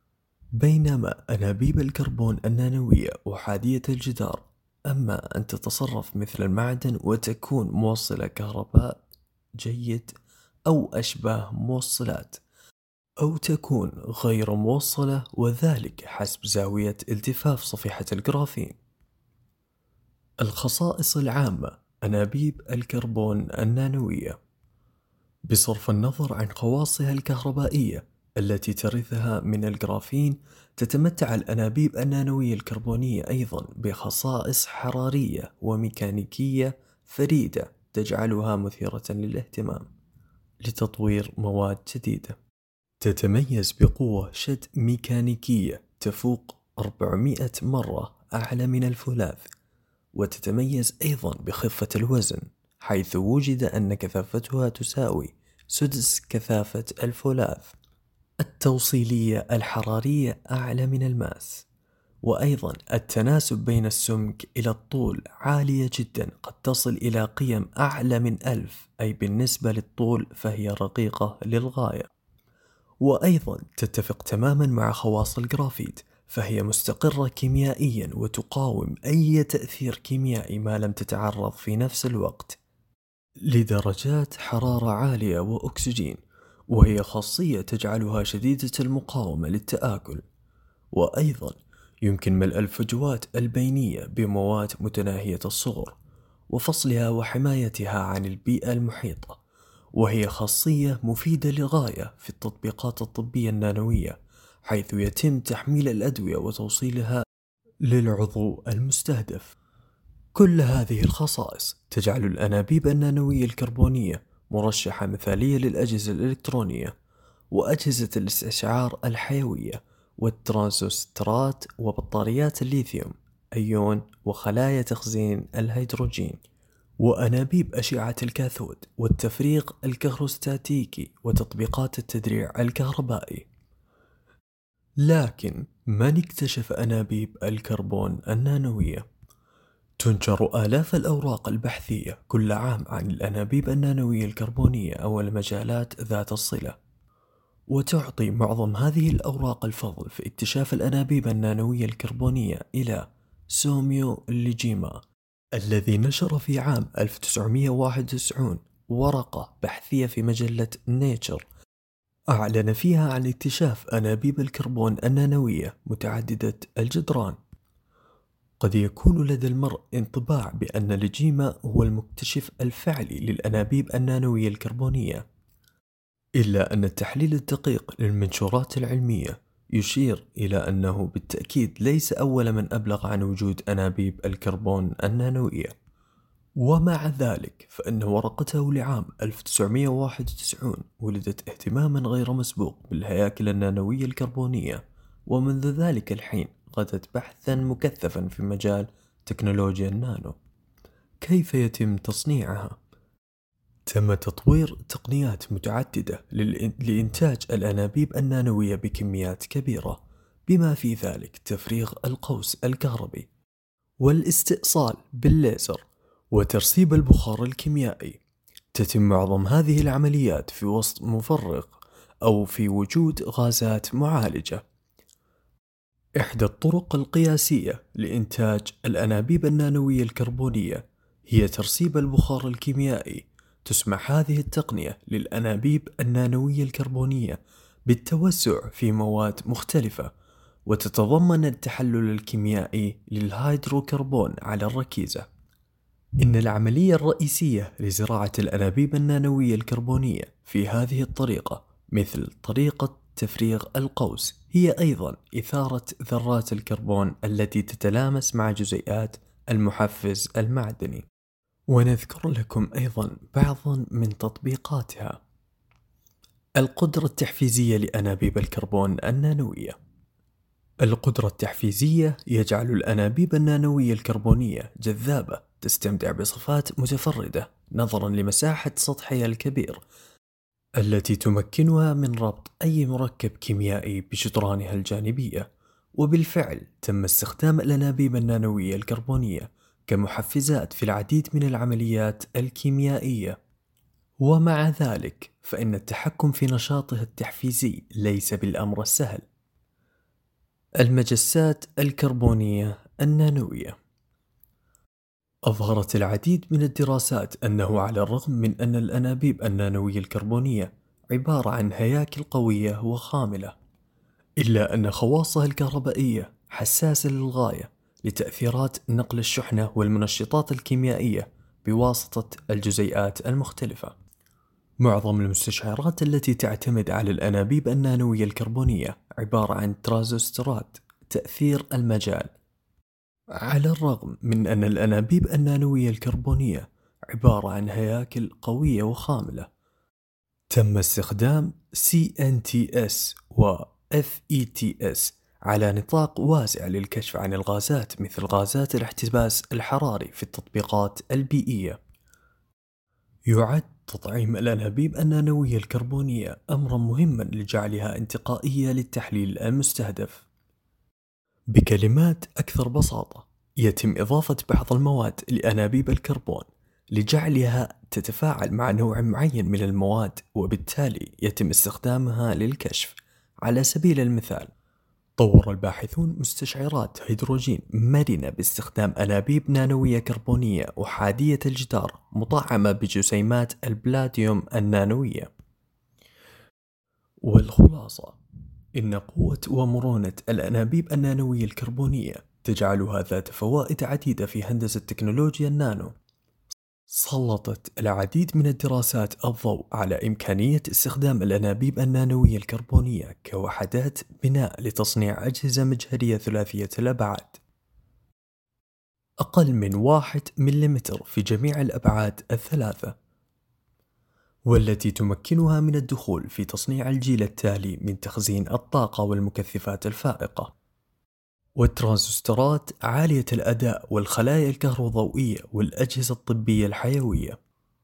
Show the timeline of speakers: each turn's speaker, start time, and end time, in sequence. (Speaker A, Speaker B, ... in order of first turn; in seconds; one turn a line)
Speaker A: 0.6-9.0
Speaker A: 9.6-10.1
Speaker A: 10.7-12.4
Speaker A: 13.2-18.8
Speaker A: 20.4-24.4
Speaker A: 25.5-39.9
Speaker A: 40.6-42.4
Speaker A: 43.0-49.5
Speaker A: 50.1-57.7
Speaker A: 58.4-61.6
Speaker A: 62.2-72.1
Speaker A: 73.0-82.6
Speaker A: 83.5-90.2
Speaker A: 90.9-96.0
Speaker A: 96.5-99.4
Speaker A: 99.9-107.2
Speaker A: 107.8-109.5
Speaker A: 110.3-116.9
Speaker A: 117.5-126.4
Speaker A: 127.0-133.4
Speaker A: 135.0-139.0
Speaker A: 140.0-146.8
Speaker A: 147.7-155.0
Speaker A: 155.6-161.4
Speaker A: 162.3-167.4
Speaker A: 168.6-175.2
Speaker A: 176.4-185.7
Speaker A: 186.6-200.3
Speaker A: 201.2-202.8
Speaker A: 203.9-213.3
Speaker A: 214.0-218.2
Speaker A: 218.7-224.6
Speaker A: 226.2-240.1
Speaker A: 240.7-245.2
Speaker A: 246.2-261.1
Speaker A: 261.7-265.2
Speaker A: 266.6-269.8
Speaker A: 270.8-279.8
Speaker A: 280.8-293.4
Speaker A: 294.2-299.2
Speaker A: 300.8-303.8
Speaker A: 305.5-313.5
Speaker A: 314.4-323.9
Speaker A: 324.8-332.3
Speaker A: 333.3-339.5
Speaker A: 340.5-351.8
Speaker A: 353.2-360.2
Speaker A: 361.5-374.5
Speaker A: 375.2-385.3
Speaker A: 387.2-388.2
Speaker A: 388.8-395.9
Speaker A: 396.9-407.4
Speaker A: 409.2-412.9
Speaker A: 414.5-420.5
Speaker A: 421.6-427.4